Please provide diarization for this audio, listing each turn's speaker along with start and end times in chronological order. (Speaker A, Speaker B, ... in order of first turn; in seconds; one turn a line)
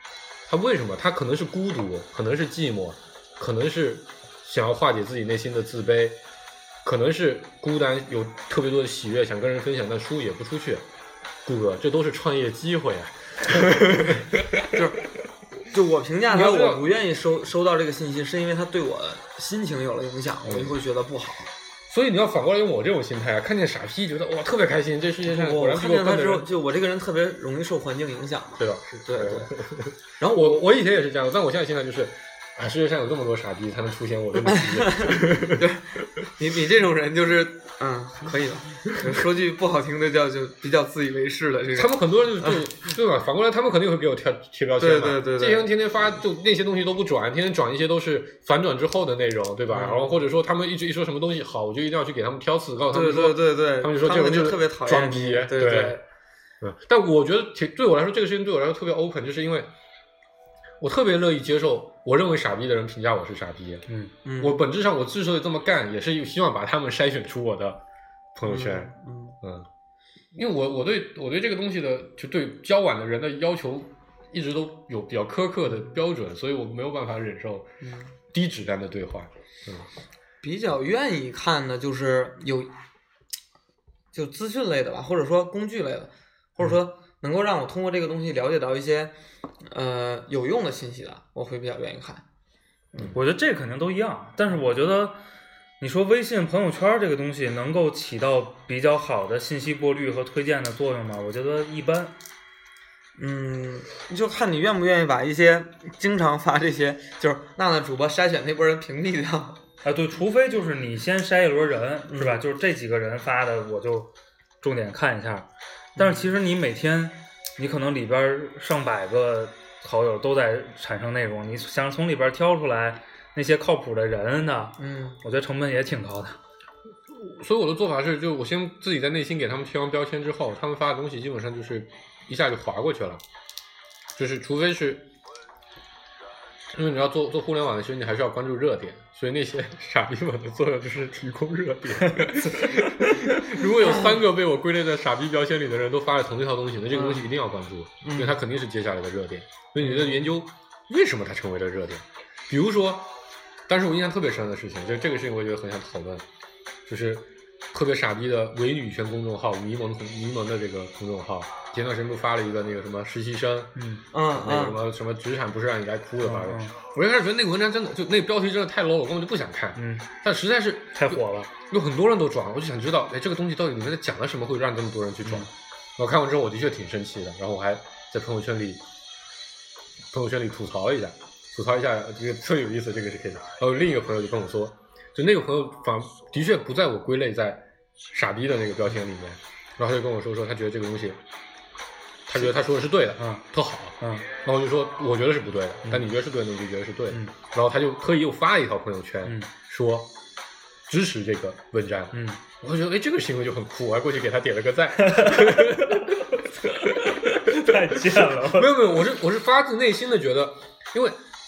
Speaker A: 0.5-6.2
Speaker A: 6.8-10.9
Speaker A: 11.4-14.7
Speaker B: 14.7-15.0
Speaker B: 15.6-21.5
Speaker A: 16.3-16.9
Speaker A: 20.4-20.8
Speaker A: 21.9-26.5
Speaker B: 25.2-29.5
Speaker A: 28.6-35.6
Speaker B: 30.2-30.7
Speaker B: 34.5-42.6
Speaker A: 41.7-56.0
Speaker B: 44.8-45.7
Speaker B: 49.7-50.2
Speaker B: 52.9-56.0
Speaker A: 56.6-59.7
Speaker A: 60.8-63.9
Speaker B: 64.2-64.6
Speaker A: 64.4-67.8
Speaker A: 68.3-69.7
Speaker B: 68.4-69.4
Speaker A: 70.3-77.7
Speaker B: 77.8-78.1
Speaker A: 78.3-79.9
Speaker B: 80.4-82.7
Speaker B: 84.1-92.2
Speaker C: 93.1-95.2
Speaker C: 95.8-102.2
Speaker B: 103.2-109.6
Speaker C: 109.8-126.4
Speaker B: 112.1-112.4
Speaker B: 116.0-116.3
Speaker B: 124.8-125.2
Speaker A: 127.1-133.2
Speaker A: 134.2-135.1
Speaker A: 136.7-153.1
Speaker B: 146.9-147.3
Speaker B: 148.0-148.4
Speaker B: 149.8-150.3
Speaker A: 153.7-156.2
Speaker A: 156.9-163.8
Speaker C: 163.8-164.0
Speaker B: 164.1-164.8
Speaker A: 164.3-178.8
Speaker C: 166.2-166.8
Speaker C: 169.8-170.1
Speaker C: 170.9-171.5
Speaker A: 180.1-191.2
Speaker A: 192.3-200.1
Speaker C: 193.2-193.4
Speaker C: 194.0-194.3
Speaker C: 195.8-196.1
Speaker A: 200.9-211.2
Speaker C: 202.1-202.4
Speaker C: 205.0-206.1
Speaker C: 206.8-209.0